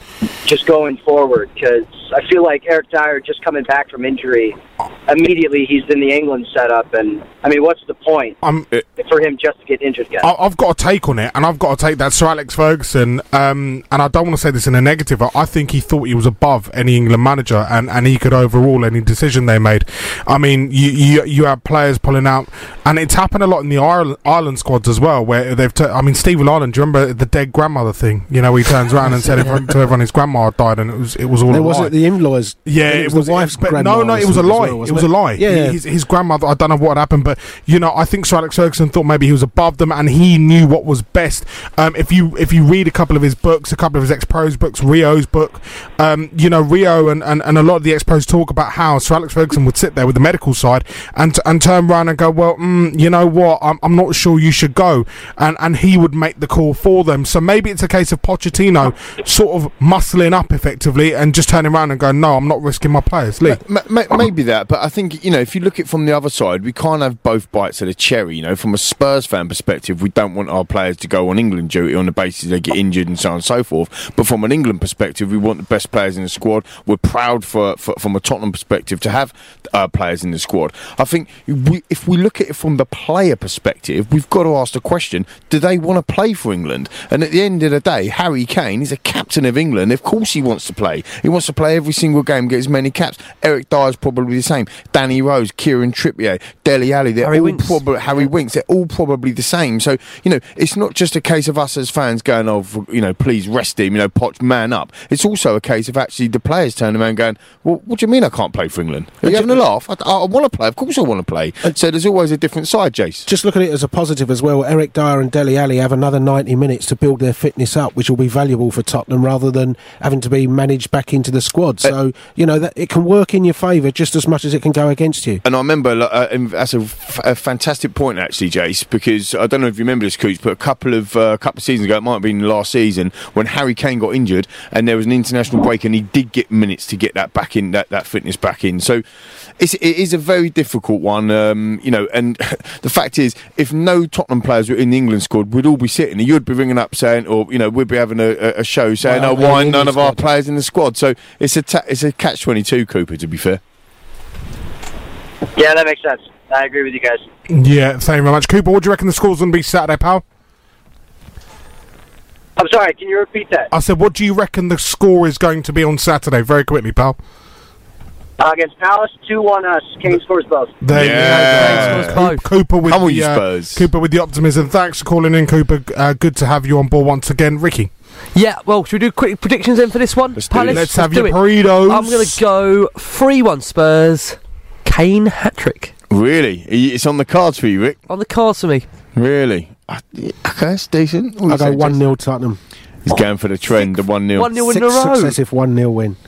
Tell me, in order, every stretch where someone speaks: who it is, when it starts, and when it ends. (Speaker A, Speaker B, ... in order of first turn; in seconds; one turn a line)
Speaker A: 0.4-8.4
Speaker B: 8.4-8.7
Speaker A: 9.0-10.3
Speaker B: 10.2-31.9
Speaker C: 29.3-29.6
Speaker C: 31.5-35.8
Speaker B: 32.6-63.6
Speaker D: 63.4-113.3
Speaker E: 97.2-98.3
Speaker C: 109.2-109.6
Speaker C: 113.3-125.4
Speaker D: 125.4-139.0
Speaker D: 139.6-153.6
Speaker C: 149.0-150.2
Speaker A: 155.6-157.3
Speaker B: 157.5-160.2
Speaker A: 162.6-163.7
Speaker B: 163.7-167.2
Speaker A: 168.4-170.8
Speaker B: 170.8-177.9
Speaker D: 170.9-172.2
Speaker E: 171.5-172.4
Speaker D: 172.9-173.9
Speaker E: 178.3-185.9
Speaker D: 180.4-180.9
Speaker B: 180.7-182.4
Speaker D: 186.1-188.0
Speaker E: 188.1-188.9
Speaker D: 189.2-192.0
Speaker C: 191.5-192.6
Speaker D: 193.1-194.5
Speaker E: 193.7-195.4
Speaker C: 194.5-196.2